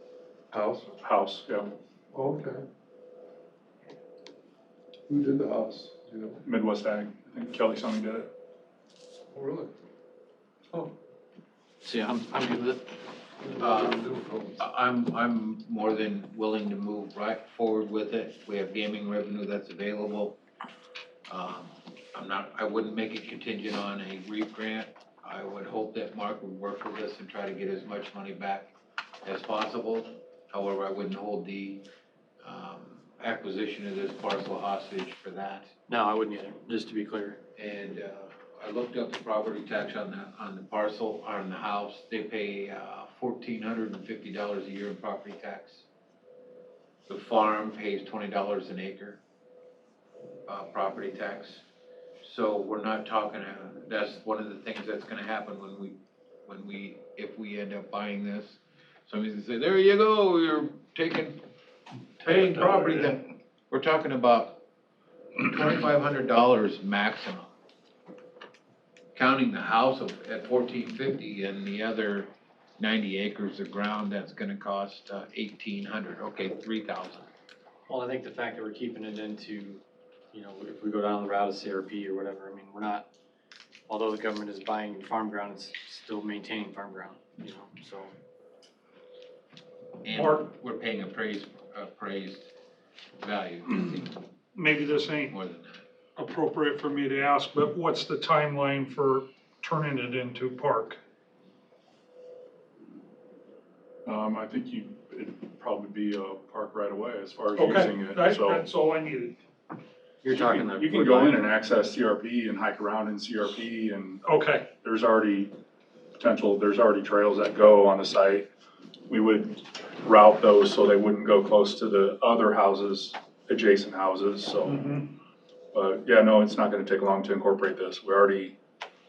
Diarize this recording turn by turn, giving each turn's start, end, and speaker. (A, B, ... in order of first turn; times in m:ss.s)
0:00.5-0:01.0 A
0:01.0-0:01.7 B
0:02.1-0:02.6 A
0:05.1-0:06.4 A
0:06.4-0:08.3 B
0:09.3-0:09.7 A
0:11.8-0:13.0 C
0:13.6-0:20.4 D
0:13.8-0:14.2 C
0:14.2-0:14.5 A
0:21.3-0:28.7 D
0:29.2-0:31.8 D
0:32.4-0:35.7 D
0:35.9-0:37.4 C
0:37.6-0:45.9 D
0:47.1-0:49.2 D
0:50.5-0:51.6 D
0:52.2-1:01.4 D
1:02.2-1:04.6 D
1:02.3-1:03.1 E
1:05.4-1:07.5 D
1:09.2-1:17.3 D
1:17.9-1:23.1 C
1:23.9-1:28.1 C
1:30.0-1:32.5 D
1:30.1-1:30.4 E
1:33.2-1:34.2 D
1:34.5-1:35.3 E
1:35.3-1:35.8 D
1:36.2-1:41.0 E
1:44.0-1:48.6 B
1:47.6-1:49.4 E
1:50.2-1:51.4 C
1:50.3-1:55.5 B
1:54.2-1:54.7 E
1:56.2-1:58.4 B
1:59.1-2:04.9 B
2:04.6-2:05.1 E
2:05.7-2:08.6 B